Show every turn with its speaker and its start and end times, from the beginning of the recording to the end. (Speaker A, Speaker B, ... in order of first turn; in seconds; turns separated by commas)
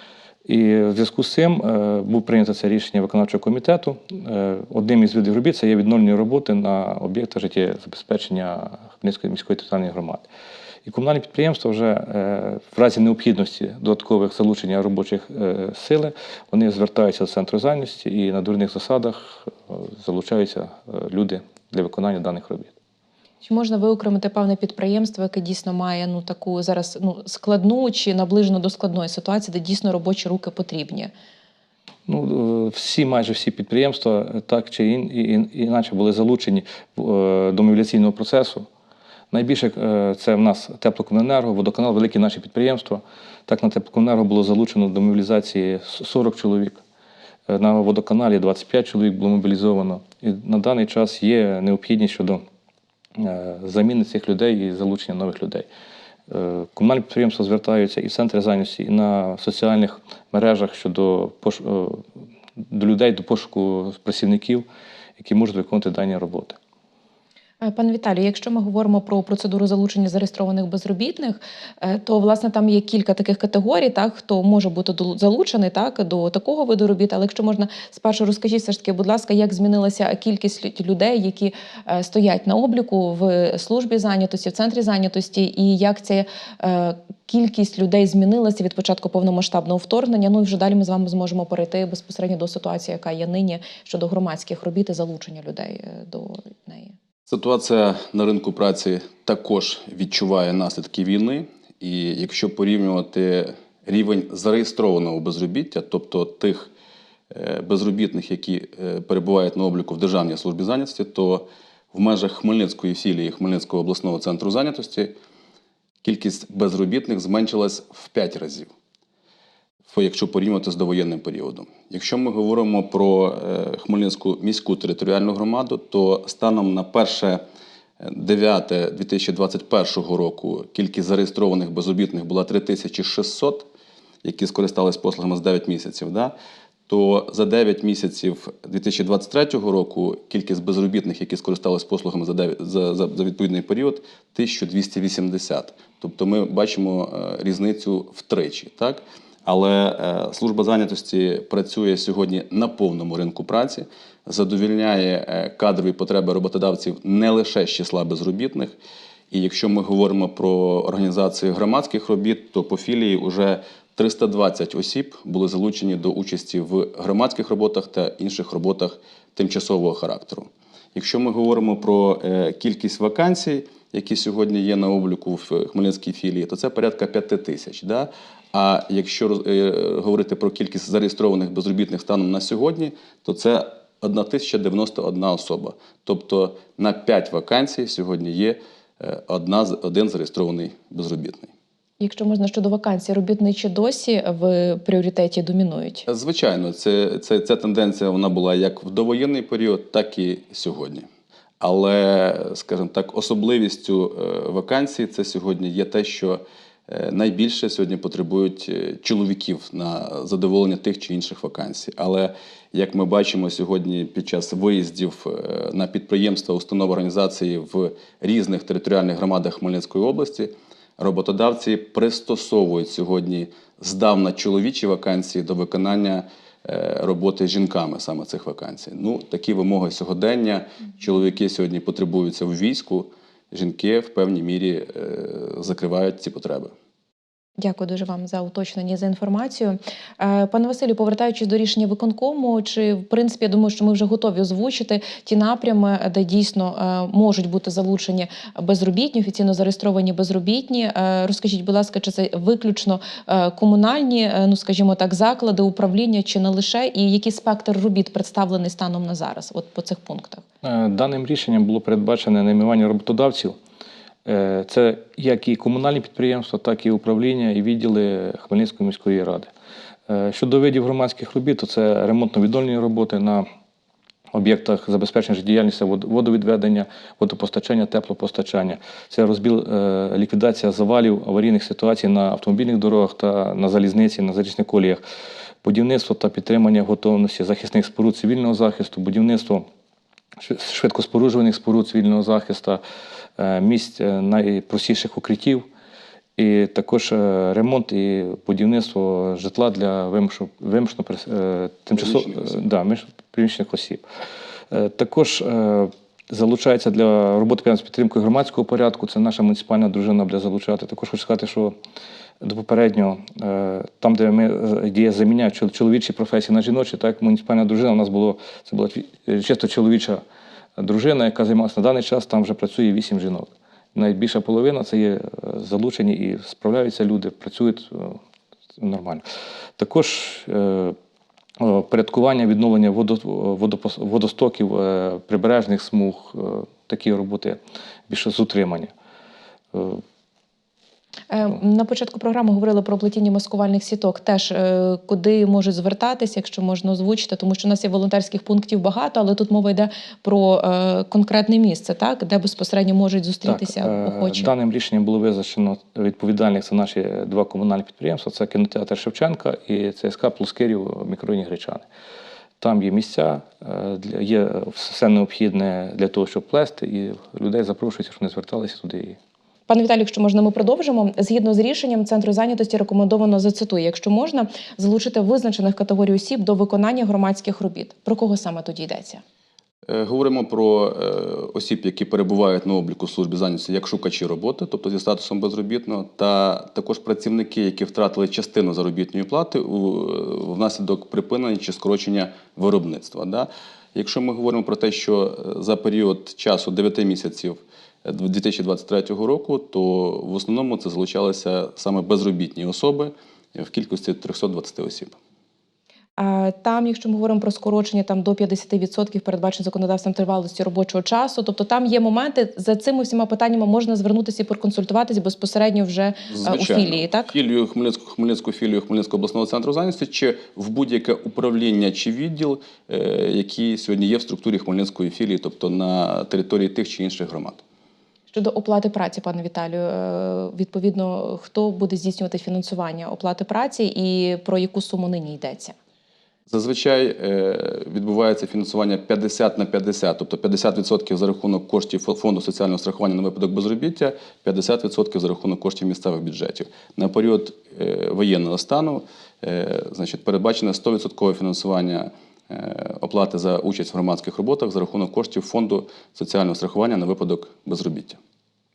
Speaker A: 0.5-10.2, Speaker A: 10.8-22.7, Speaker B: 23.4-31.1, Speaker A: 32.1-38.6, Speaker A: 39.3-46.8, Speaker A: 47.5-52.4, Speaker A: 53.2-55.7, Speaker A: 56.3-62.0, Speaker A: 62.7-64.6, Speaker A: 65.2-66.6, Speaker B: 67.6-96.9, Speaker C: 97.3-106.7, Speaker C: 107.3-115.1, Speaker C: 116.0-118.7, Speaker C: 119.9-127.4, Speaker C: 128.0-133.7, Speaker C: 134.2-136.3, Speaker C: 136.9-158.7, Speaker C: 159.3-191.5, Speaker B: 192.0-196.1, Speaker C: 196.1-201.1, Speaker C: 201.6-236.7, Speaker B: 237.6-260.4, Speaker A: 260.6-263.6, Speaker A: 264.2-269.5, Speaker A: 270.1-273.4, Speaker A: 274.3-285.0, Speaker A: 285.6-289.6, Speaker A: 290.4-292.8, Speaker A: 293.4-295.6, Speaker A: 296.4-304.0, Speaker C: 301.9-302.6, Speaker A: 304.7-311.7, Speaker A: 312.4-320.2, Speaker A: 320.8-328.2, Speaker A: 328.8-329.2, Speaker A: 329.8-330.9, Speaker A: 331.6-337.6, Speaker A: 338.1-338.9, Speaker A: 339.7-340.0, Speaker B: 341.3-354.5, Speaker A: 353.4-361.8, Speaker A: 362.6-369.2, Speaker B: 369.7-379.2, Speaker C: 379.9-405.1, Speaker B: 406.2-417.3, Speaker C: 416.3-427.6, Speaker B: 428.3-435.7, Speaker C: 436.5-458.2